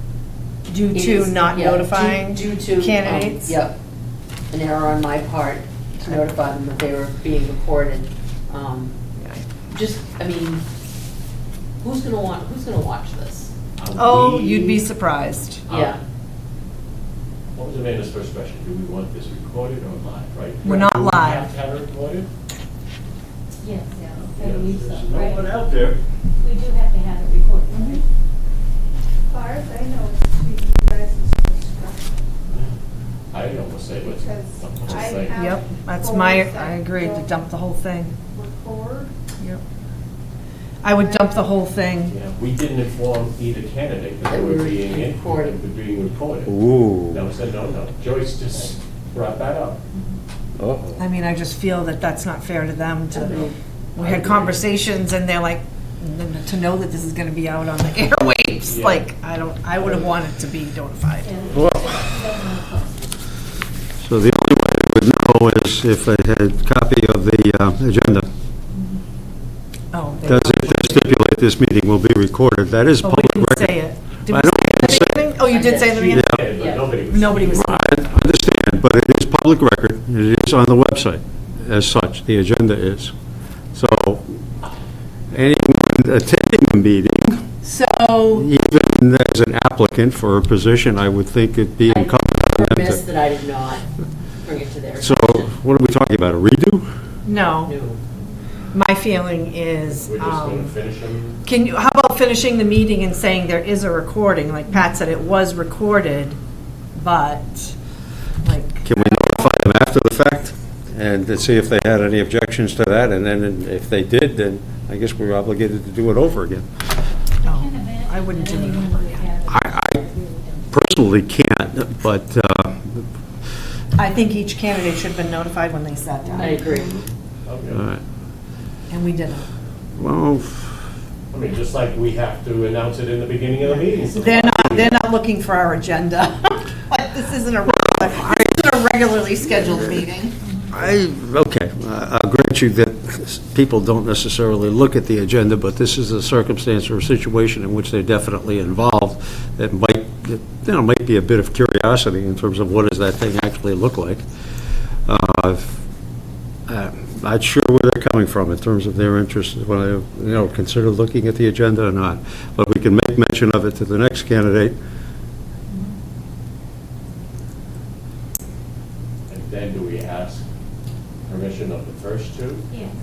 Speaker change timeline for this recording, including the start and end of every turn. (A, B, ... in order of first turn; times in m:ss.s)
0:00.7-0:03.6 A
0:00.9-0:03.8 B
0:04.5-0:08.9 B
0:09.7-0:10.6 B
0:11.8-0:13.5 B
0:13.8-0:14.8 C
0:14.0-0:15.6 A
0:15.7-0:16.0 C
0:15.7-0:16.0 B
0:17.5-0:22.3 C
0:20.6-0:21.5 A
0:23.6-0:25.4 D
0:24.4-0:24.8 C
0:24.6-0:26.0 E
0:26.4-0:28.0 D
0:29.3-0:32.0 F
0:32.5-0:32.8 C
0:33.3-0:35.4 C
0:34.9-0:37.3 F
0:35.3-0:38.2 A
0:38.4-0:39.0 F
0:40.8-0:42.1 A
0:42.1-0:49.8 C
0:44.3-0:45.6 B
0:46.4-0:47.2 E
0:50.6-0:51.0 E
0:51.0-1:01.6 A
0:53.1-0:53.6 B
0:54.0-0:54.6 C
0:58.6-0:59.0 C
1:01.2-1:03.1 D
1:01.5-1:01.9 E
1:04.0-1:08.3 E
1:09.9-1:11.1 A
1:10.2-1:15.2 E
1:13.0-1:16.4 A
1:15.5-1:16.9 B
1:16.0-1:16.5 E
1:16.1-1:17.8 C
1:17.1-1:18.1 A
1:17.3-1:23.1 E
1:23.7-1:24.4 E
1:25.3-1:27.4 E
1:27.6-1:28.4 A
1:28.3-1:33.0 E
1:31.8-1:33.8 B
1:34.4-1:35.5 B
1:35.0-1:36.9 E
1:37.2-1:37.7 A
1:37.6-1:38.0 B
1:38.7-1:40.7 A
1:40.0-1:41.4 C
1:41.4-1:46.4 A
1:46.9-1:47.7 A
1:48.4-1:49.6 A
1:48.8-1:56.7 E
1:57.4-2:00.8 D
1:57.4-1:59.3 A
1:59.5-2:00.0 E
2:00.7-2:03.1 E
2:03.9-2:06.9 A
2:06.4-2:07.0 B
2:07.4-2:07.9 C
2:07.7-2:08.0 E
2:08.9-2:09.5 A
2:10.0-2:10.8 E
2:11.3-2:15.1 C
2:13.6-2:20.3 A
2:17.6-2:18.7 E
2:20.7-2:34.2 E
2:35.0-2:35.8 E
2:36.7-2:44.8 E
2:45.7-2:46.0 D
2:49.3-2:50.4 C
2:51.3-2:52.6 C
2:52.7-2:52.9 D